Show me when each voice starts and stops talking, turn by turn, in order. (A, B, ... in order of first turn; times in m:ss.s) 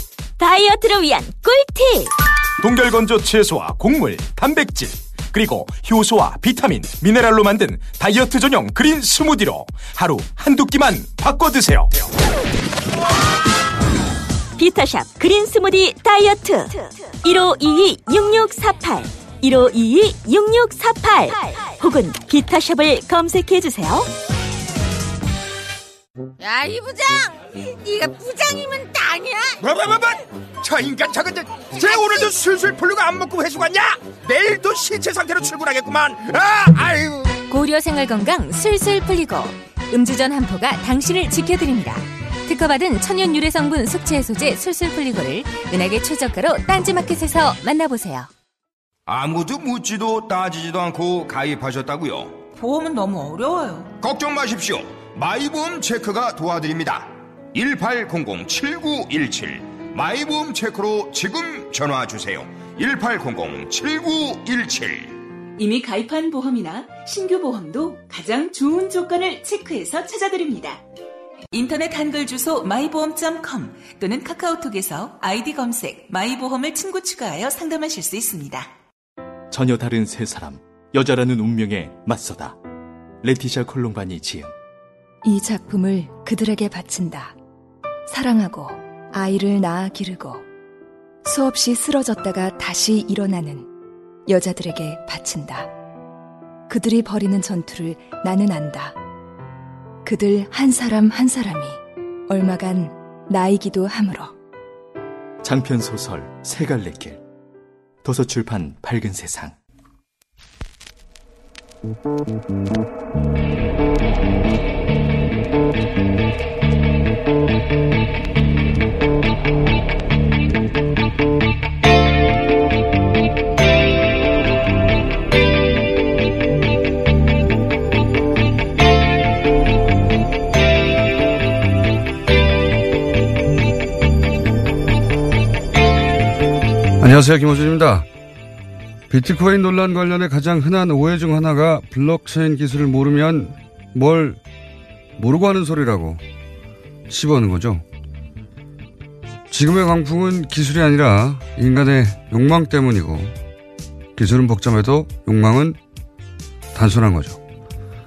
0:00.4-0:02.1 A
0:02.6-0:12.1 B
0:14.6-0:24.1 A
0:26.4-0:29.6 C
0:29.6-0:37.4 D
0:37.5-0:48.3 E
0:49.1-0:52.4 D
0:52.6-0:53.9 F
0:54.0-1:05.2 D
1:05.6-1:10.8 F
1:11.5-1:18.7 F
1:19.5-1:22.6 G
1:23.2-1:24.5 G
1:25.2-1:27.4 H
1:28.1-1:30.4 H
1:31.2-1:33.7 H
1:34.3-1:35.7 H
1:36.7-1:39.0 H
1:40.0-1:44.4 H
1:45.4-1:47.2 G
1:48.0-1:49.6 G
2:17.0-2:18.1 I
2:19.1-2:24.4 I
2:25.2-2:26.2 I
2:27.1-2:27.8 I
2:29.5-2:33.4 I
2:34.2-2:35.8 I
2:36.7-2:37.4 I